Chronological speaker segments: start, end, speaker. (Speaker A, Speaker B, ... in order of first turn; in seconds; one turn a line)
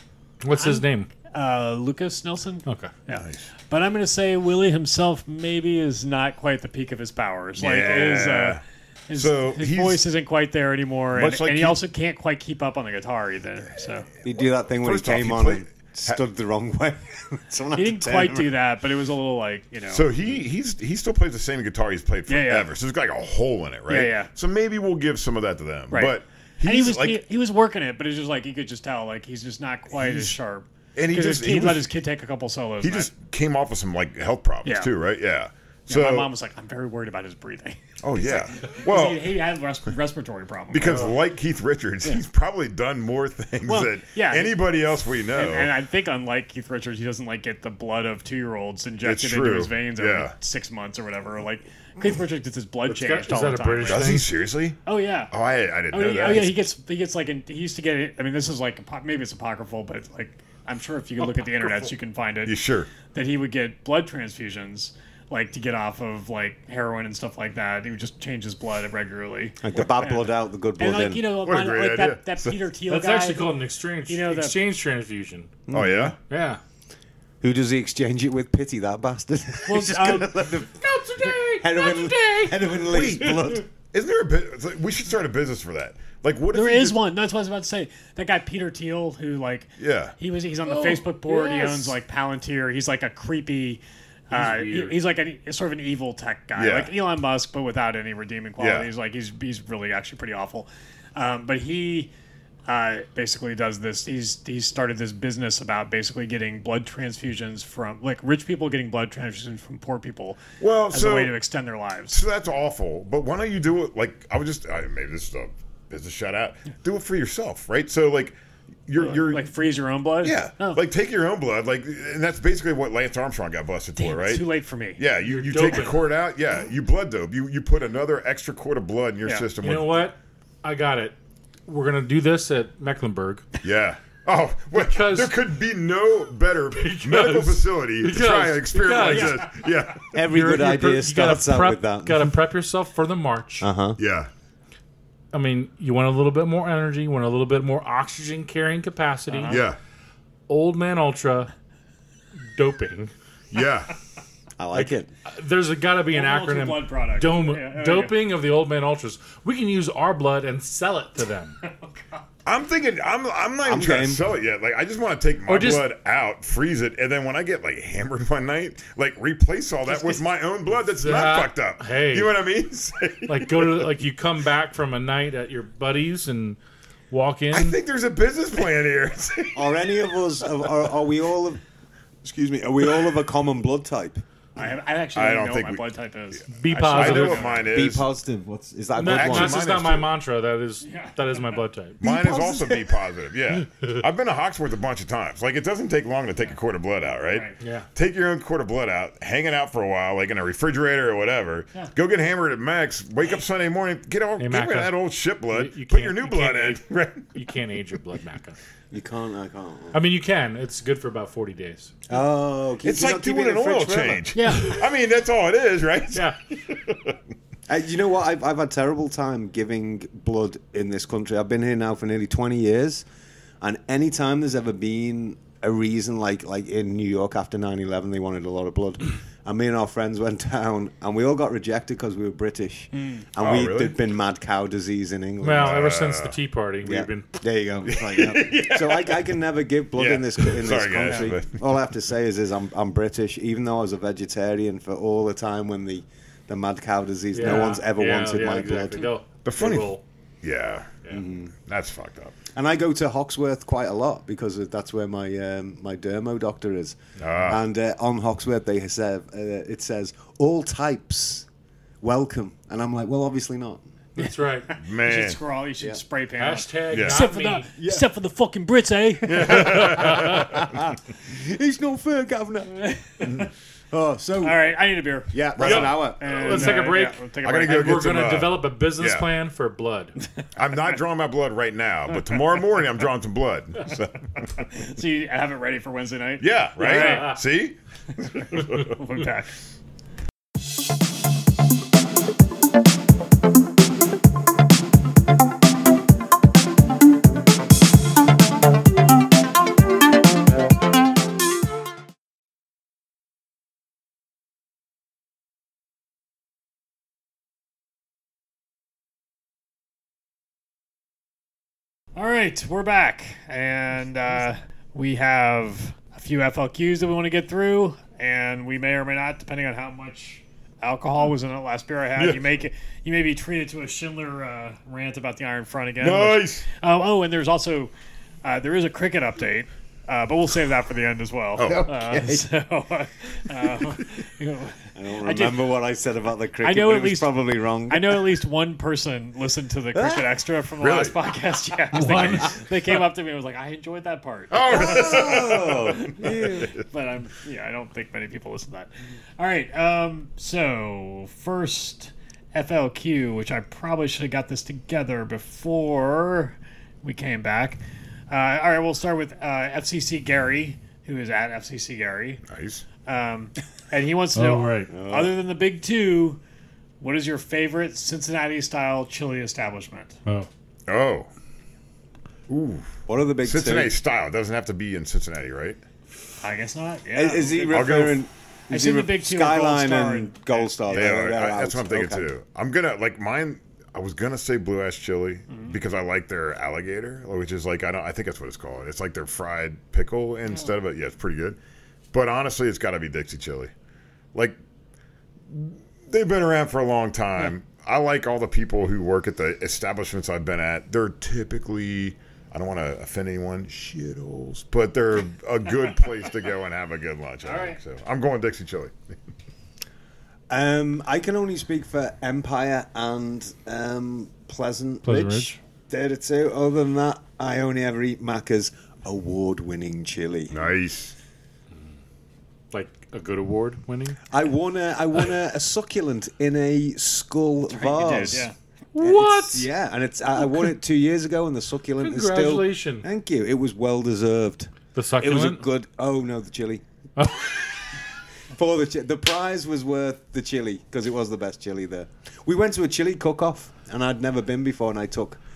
Speaker A: 0.4-1.1
Speaker B: 0.6-14.1
Speaker A: 2.6-2.9
Speaker C: 3.1-3.4
Speaker C: 7.6-10.0
Speaker C: 11.1-11.8
Speaker D: 14.2-18.5
Speaker C: 14.8-16.2
Speaker B: 17.8-20.1
Speaker C: 19.9-27.2
Speaker B: 22.3-22.7
Speaker B: 23.9-24.3
Speaker B: 25.9-33.1
Speaker C: 29.9-30.4
Speaker C: 30.9-31.9
Speaker C: 32.8-36.3
Speaker B: 34.6-34.9
Speaker B: 35.9-41.2
Speaker C: 38.0-39.4
Speaker C: 40.7-45.7
Speaker B: 43.6-44.7
Speaker B: 45.3-54.2
Speaker C: 49.0-50.3
Speaker A: 52.9-54.3
Speaker C: 53.9-54.8
Speaker B: 54.9-55.3
Speaker C: 55.3-56.7
Speaker B: 55.9-74.6
Speaker C: 61.3-61.9
Speaker C: 62.4-62.9
Speaker D: 69.6-71.3
Speaker C: 71.4-72.6
Speaker A: 72.9-75.6
Speaker D: 75.7-76.1
Speaker C: 75.7-76.2
Speaker A: 76.3-76.6
Speaker D: 77.4-83.7
Speaker B: 79.7-80.3
Speaker A: 80.5-83.0
Speaker C: 82.9-87.0
Speaker B: 86.5-102.1
Speaker C: 89.8-90.1
Speaker A: 90.6-91.9
Speaker A: 94.3-95.0
Speaker C: 96.5-96.9
Speaker C: 98.6-98.9
Speaker B: 102.7-112.2
Speaker C: 110.6-111.3
Speaker C: 112.1-119.5
Speaker B: 119.0-120.8
Speaker C: 120.2-124.4
Speaker B: 123.9-125.0
Speaker C: 125.0-130.0
Speaker A: 125.2-126.0
Speaker A: 129.6-133.4
Speaker C: 133.6-140.1
Speaker A: 134.7-135.3
Speaker A: 136.7-139.4
Speaker D: 140.1-142.3
Speaker A: 140.1-143.7
Speaker D: 143.6-144.0
Speaker C: 144.0-144.3
Speaker A: 145.3-149.6
Speaker B: 149.3-149.6
Speaker C: 149.5-149.8
Speaker A: 150.5-151.5
Speaker A: 152.5-153.1
Speaker C: 153.5-153.9
Speaker D: 154.6-155.1
Speaker A: 154.7-161.6
Speaker B: 156.1-158.2
Speaker C: 162.4-173.9
Speaker D: 163.6-164.3
Speaker A: 165.5-165.8
Speaker B: 169.9-170.2
Speaker A: 171.0-172.3
Speaker A: 173.2-176.6
Speaker A: 177.1-177.8
Speaker C: 177.5-179.7
Speaker D: 179.5-181.6
Speaker D: 182.2-184.2
Speaker B: 184.6-187.8
Speaker C: 185.1-185.8
Speaker A: 186.6-187.5
Speaker C: 186.7-188.0
Speaker D: 187.7-189.6
Speaker A: 188.9-192.0
Speaker C: 189.0-190.1
Speaker B: 190.8-191.5
Speaker D: 192.0-192.9
Speaker C: 192.0-207.3
Speaker B: 197.3-197.6
Speaker A: 197.6-197.9
Speaker A: 204.4-204.9
Speaker A: 205.5-208.6
Speaker D: 208.9-210.0
Speaker A: 209.9-211.9
Speaker D: 212.1-214.3
Speaker C: 212.8-217.2
Speaker B: 214.3-214.8
Speaker D: 217.7-223.1
Speaker D: 223.6-235.9
Speaker B: 232.9-233.2
Speaker C: 233.4-234.0
Speaker A: 235.4-237.2
Speaker C: 235.5-236.4
Speaker D: 236.8-249.1
Speaker C: 237.8-239.2
Speaker C: 239.9-241.6
Speaker B: 241.0-241.3
Speaker A: 247.3-250.0
Speaker C: 249.4-252.3
Speaker D: 251.1-251.5
Speaker D: 252.5-261.5
Speaker C: 257.2-257.6
Speaker D: 262.0-263.8
Speaker A: 264.2-264.7
Speaker B: 264.2-270.3
Speaker C: 264.8-265.4
Speaker A: 266.4-267.7
Speaker C: 266.9-267.2
Speaker D: 267.8-268.1
Speaker C: 269.2-270.8
Speaker D: 269.3-272.8
Speaker B: 272.7-273.5
Speaker D: 273.9-274.6
Speaker B: 274.4-278.0
Speaker D: 275.3-276.4
Speaker C: 275.6-276.7
Speaker A: 275.6-280.2
Speaker C: 277.4-279.3
Speaker C: 280.6-284.6
Speaker B: 284.7-287.4
Speaker C: 286.4-289.0
Speaker A: 286.8-287.3
Speaker B: 288.5-289.5
Speaker B: 312.1-327.9
Speaker C: 322.1-322.5
Speaker C: 326.0-326.7
Speaker B: 328.4-335.6
Speaker C: 331.6-331.9
Speaker D: 331.7-332.5
Speaker D: 334.9-338.4
Speaker B: 336.6-346.3
Speaker D: 339.9-340.4
Speaker C: 340.8-341.1
Speaker A: 341.9-342.5
Speaker C: 342.0-342.4
Speaker C: 344.5-346.8
Speaker D: 344.7-346.7
Speaker B: 346.9-362.4
Speaker C: 362.5-362.8
Speaker B: 363.0-366.4
Speaker A: 364.3-364.9
Speaker D: 364.9-365.3
Speaker B: 367.0-370.2
Speaker C: 370.9-371.3
Speaker C: 372.5-372.9
Speaker D: 373.1-373.9
Speaker C: 373.4-375.8
Speaker B: 376.4-378.1
Speaker D: 377.1-382.3
Speaker C: 377.7-378.2
Speaker B: 378.7-380.7
Speaker C: 380.9-391.6
Speaker C: 392.1-393.7
Speaker C: 395.5-408.9
Speaker B: 407.4-407.8
Speaker D: 410.5-420.6
Speaker A: 415.0-415.5
Speaker C: 420.5-421.1
Speaker A: 422.7-424.2
Speaker D: 424.3-428.5
Speaker B: 427.7-428.5
Speaker A: 428.9-429.7
Speaker D: 429.0-436.8
Speaker A: 432.0-433.0
Speaker A: 434.9-435.6
Speaker A: 437.2-437.6
Speaker D: 438.5-445.4